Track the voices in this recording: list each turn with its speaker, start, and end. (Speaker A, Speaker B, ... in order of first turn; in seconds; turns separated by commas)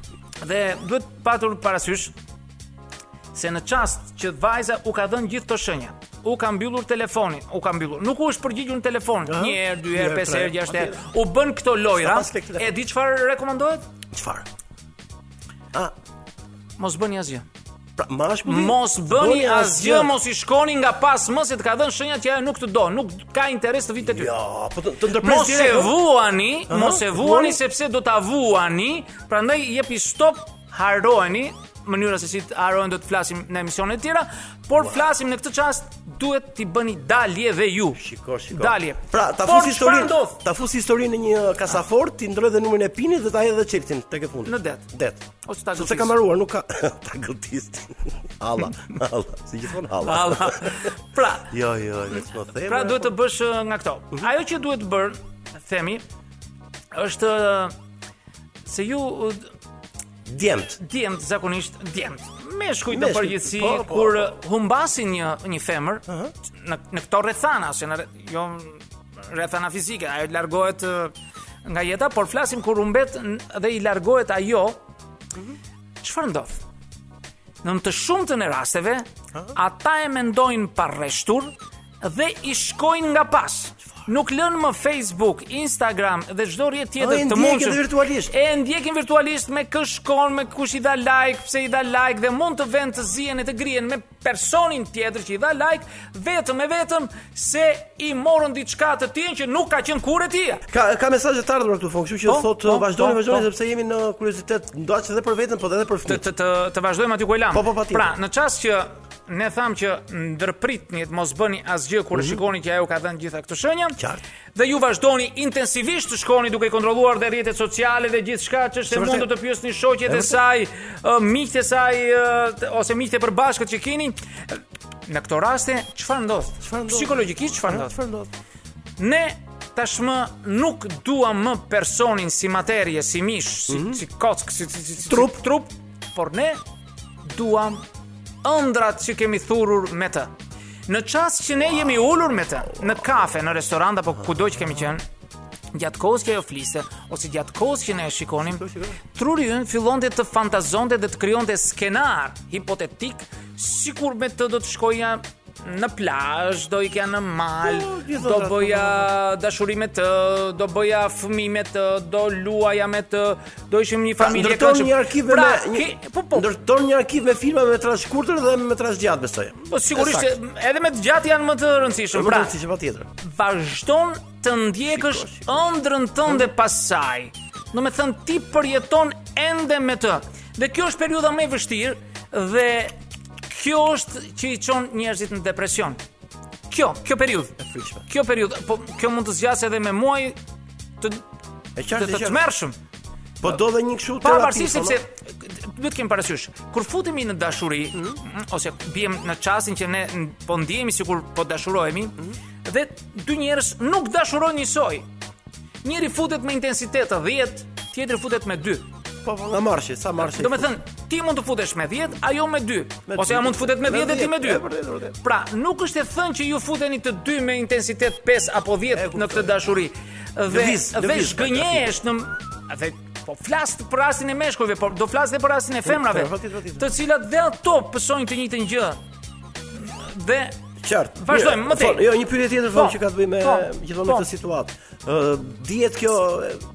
Speaker A: 0.4-2.1, Speaker A: 3.3-13.8, Speaker B: 9.2-11.0, Speaker B: 11.9-12.7, Speaker B: 14.1-14.4, Speaker A: 16.8-17.4, Speaker B: 18.0-20.1, Speaker A: 18.4-24.3, Speaker B: 24.0-26.0, Speaker A: 25.2-40.4, Speaker B: 26.7-27.6, Speaker B: 34.8-35.1, Speaker B: 38.0-45.2, Speaker A: 44.4-44.8, Speaker A: 45.4-46.1, Speaker B: 45.7-50.9, Speaker A: 50.0-51.5, Speaker B: 51.5-53.1, Speaker A: 52.6-56.0, Speaker A: 56.9-57.7, Speaker A: 58.6-59.5, Speaker B: 60.2-60.8, Speaker A: 60.8-74.8, Speaker B: 62.9-64.3, Speaker A: 76.0-76.6, Speaker A: 77.6-100.6, Speaker B: 87.0-88.3, Speaker B: 100.7-106.2, Speaker A: 102.2-103.5, Speaker A: 106.0-114.0, Speaker B: 107.5-108.2, Speaker B: 112.1-112.4, Speaker A: 114.5-127.9, Speaker B: 118.9-119.3, Speaker B: 120.0-120.4, Speaker B: 126.6-128.3, Speaker A: 129.0-136.6, Speaker B: 133.7-134.0, Speaker B: 135.0-135.4, Speaker A: 137.2-137.8, Speaker A: 138.4-140.3, Speaker A: 140.9-145.0, Speaker B: 141.7-142.2, Speaker B: 142.7-143.2, Speaker A: 145.7-166.5, Speaker B: 148.4-149.0, Speaker B: 157.6-159.1, Speaker B: 164.2-170.3, Speaker A: 169.6-172.5, Speaker B: 172.1-173.1, Speaker A: 173.2-182.9, Speaker B: 174.9-175.6, Speaker A: 183.5-186.0, Speaker A: 186.7-190.4, Speaker B: 187.6-188.0, Speaker B: 191.8-192.4, Speaker A: 191.9-192.8, Speaker B: 193.4-195.0, Speaker A: 194.2-205.1, Speaker A: 205.8-208.9, Speaker B: 209.2-210.8, Speaker A: 210.2-229.0, Speaker B: 213.1-215.2, Speaker B: 218.9-219.6, Speaker B: 220.5-221.9, Speaker B: 225.8-226.9, Speaker A: 229.7-230.6, Speaker B: 230.8-236.6, Speaker A: 231.2-232.1, Speaker A: 232.7-234.3